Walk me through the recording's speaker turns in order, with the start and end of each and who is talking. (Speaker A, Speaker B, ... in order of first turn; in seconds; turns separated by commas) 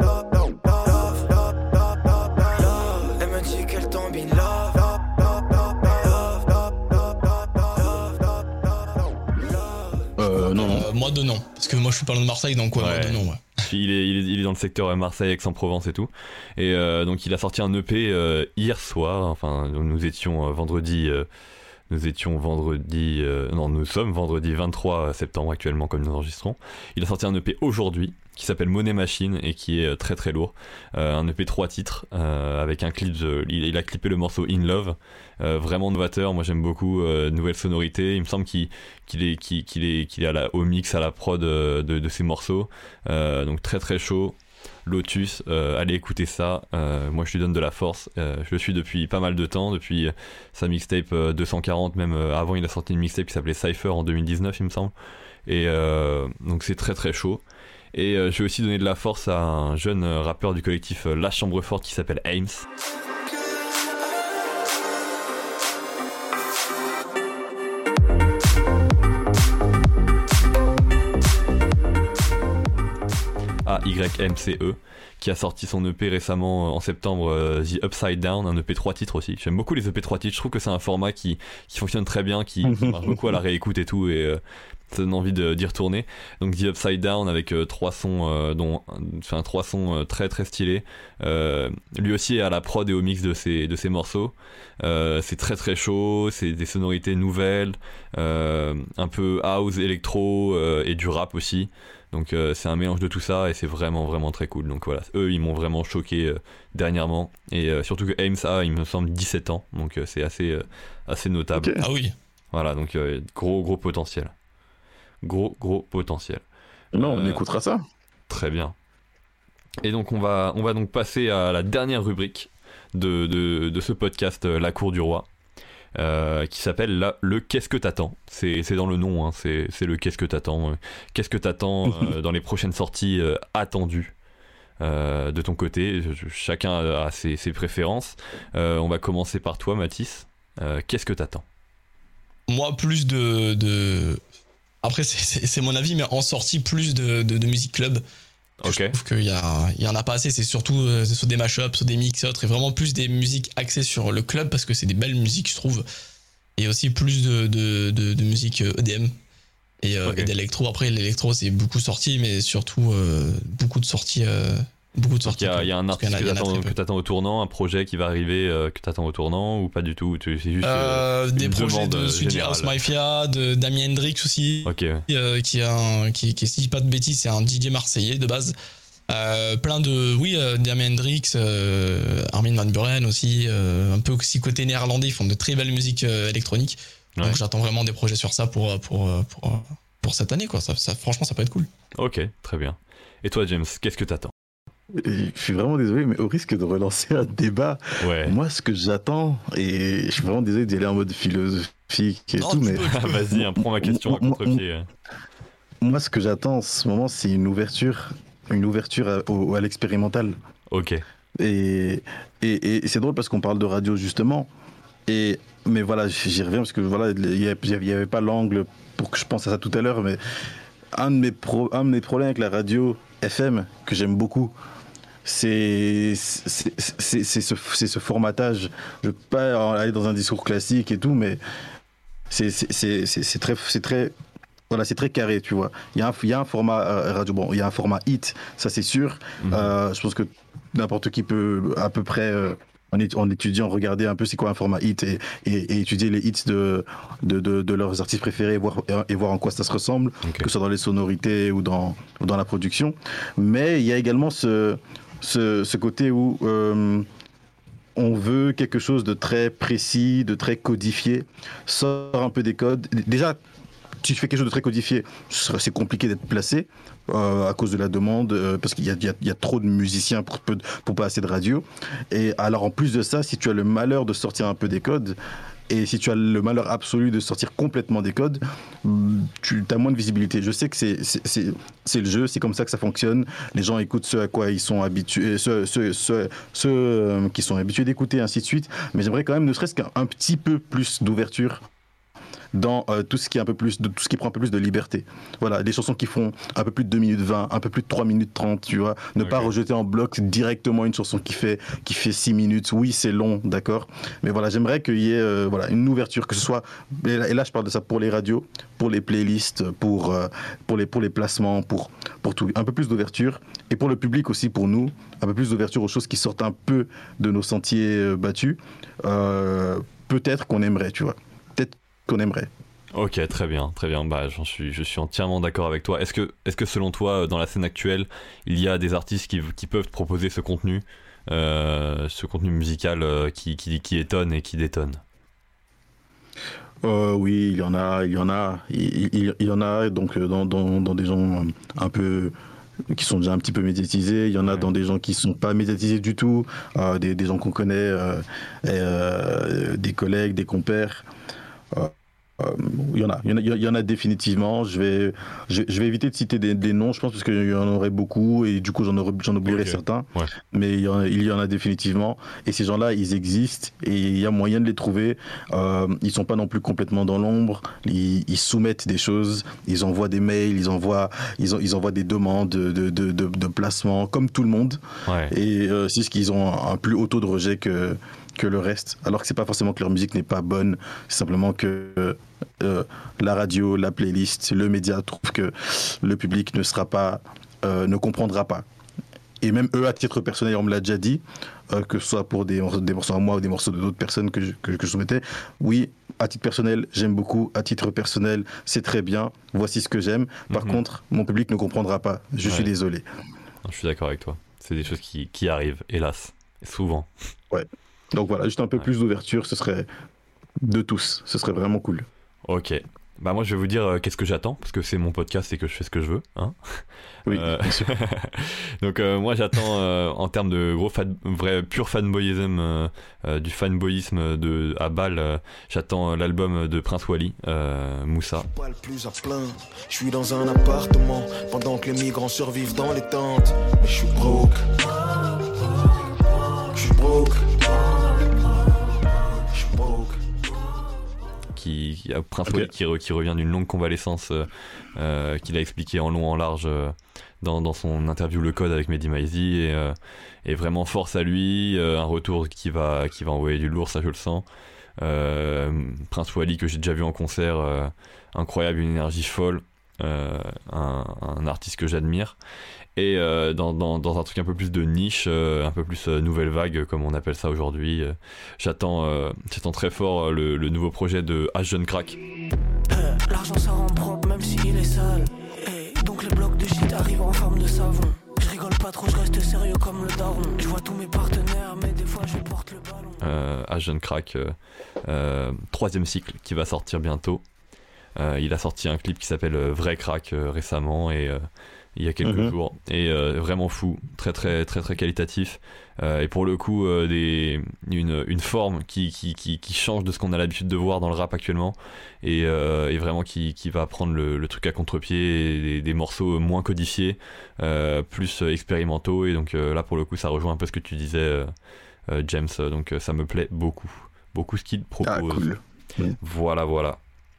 Speaker A: 0.5-1.2, Speaker A: 2.5-5.1, Speaker A: 6.0-6.3, Speaker A: 7.8-8.1, Speaker B: 10.2-10.9, Speaker C: 10.5-13.4, Speaker D: 12.8-21.3, Speaker D: 21.9-54.9, Speaker D: 55.5-57.4, Speaker D: 57.9-62.6, Speaker D: 73.6-111.7, Speaker B: 82.6-83.2, Speaker B: 111.5-111.8, Speaker C: 111.8-112.1, Speaker D: 112.5-114.3, Speaker D: 115.2-116.4, Speaker B: 116.9-117.8, Speaker D: 117.0-117.4, Speaker D: 118.3-118.7, Speaker D: 119.8-125.3, Speaker D: 125.9-134.1, Speaker D: 134.8-141.4, Speaker C: 142.5-144.2, Speaker C: 144.8-148.0, Speaker D: 148.6-148.9, Speaker C: 148.6-155.8, Speaker C: 156.6-159.1, Speaker C: 159.8-166.7, Speaker D: 160.1-160.3, Speaker D: 165.2-172.7, Speaker C: 170.6-178.5, Speaker D: 174.6-175.0, Speaker C: 179.1-191.7, Speaker D: 192.0-194.3, Speaker B: 194.9-204.6, Speaker D: 198.0-198.3, Speaker C: 202.4-203.2, Speaker D: 202.9-204.9, Speaker B: 205.8-210.4, Speaker D: 210.7-211.0, Speaker B: 211.4-214.5, Speaker B: 215.1-220.2, Speaker B: 220.9-224.5, Speaker B: 225.2-231.4, Speaker B: 232.3-234.1, Speaker B: 234.7-257.1, Speaker D: 239.4-239.7, Speaker D: 250.2-250.5, Speaker B: 257.9-263.4, Speaker B: 264.0-275.2, Speaker B: 275.7-291.6, Speaker B: 292.5-322.5, Speaker D: 299.2-299.5, Speaker D: 322.9-335.0, Speaker B: 336.8-342.3, Speaker B: 342.9-351.1, Speaker B: 351.7-388.6, Speaker D: 359.4-360.3, Speaker D: 375.1-375.3, Speaker B: 389.4-403.0, Speaker D: 400.5-400.8, Speaker D: 402.4-402.7, Speaker D: 403.6-407.1, Speaker B: 407.5-409.9, Speaker B: 410.6-412.1, Speaker D: 412.4-428.5, Speaker B: 417.3-417.9, Speaker A: 428.4-434.7, Speaker A: 436.7-438.3, Speaker A: 439.5-440.2, Speaker D: 441.5-454.4, Speaker D: 455.0-462.4, Speaker D: 462.9-472.2, Speaker E: 472.9-483.2, Speaker D: 483.2-487.4, Speaker D: 488.1-511.5, Speaker B: 492.2-492.5, Speaker D: 512.1-515.5, Speaker B: 515.0-516.2, Speaker D: 516.2-517.0